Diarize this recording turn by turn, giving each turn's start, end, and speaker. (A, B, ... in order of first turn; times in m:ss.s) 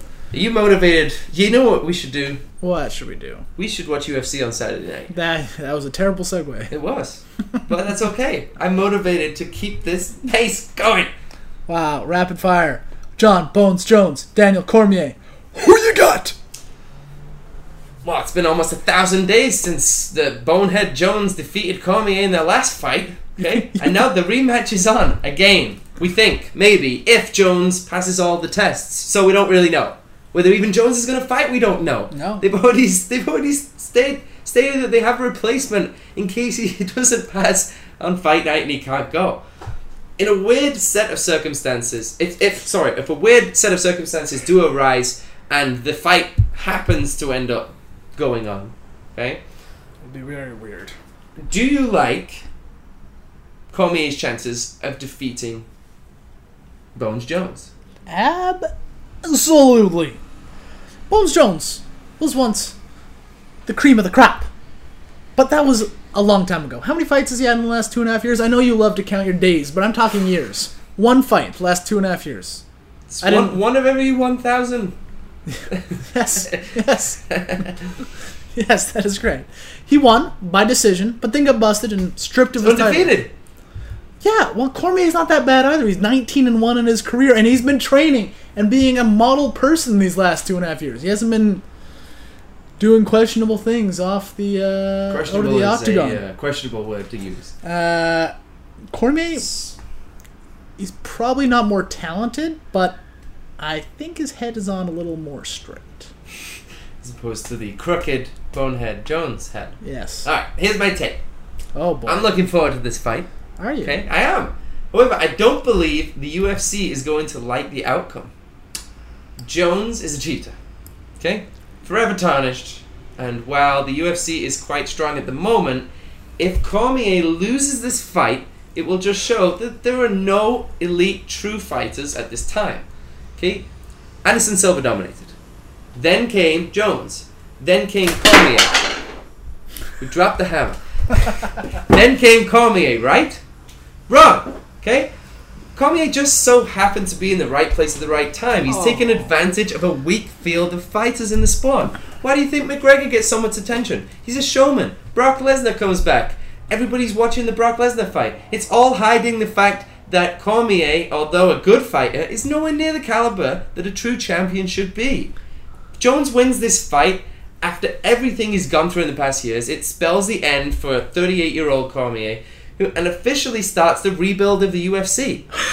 0:00.3-0:02.4 A
0:02.6-0:03.5 B
0:03.6-0:05.1 A
0:05.1-0:06.7 B
0:06.7-0:11.1 A
0:11.7-0:16.4 B
0:18.0-0:39.4 A
0:23.4-0:24.1 B
0:32.1-0:32.4 B
0:40.2-0:49.4 A
0:50.0-0:51.0 B
0:51.4-0:52.4 A
0:53.7-0:55.7 A
0:57.0-0:57.7 A
0:58.1-0:58.7 B
0:59.2-1:00.2 B
1:01.1-1:02.8 B
1:03.7-1:04.5 B
1:05.4-1:12.6 B
1:13.1-1:15.0 A
1:13.2-1:13.6 B
1:16.0-1:17.2 B
1:17.3-1:17.8 A
1:18.5-1:23.2 B
1:22.6-1:23.3 A
1:24.2-1:31.6 B
1:32.8-1:36.2 B
1:35.1-1:37.5 A
1:37.6-1:38.3 B
1:38.9-1:39.6 B
1:39.4-1:39.7 A
1:40.8-1:43.0 B
1:43.6-1:46.1 B
1:47.0-1:51.2 A
1:49.8-1:50.3 B
1:51.8-1:52.3 B
1:52.1-1:53.3 A
1:53.6-1:54.0 B
1:53.8-1:58.3 A
1:59.4-2:00.6 A
2:01.2-2:13.7 A
2:14.2-2:15.3 A
2:16.0-2:18.9 A
2:20.0-2:20.8 A
2:21.9-2:23.4 A
2:24.1-2:25.1 A
2:25.8-2:45.4 A
2:28.8-2:29.1 B
2:46.0-2:55.5 A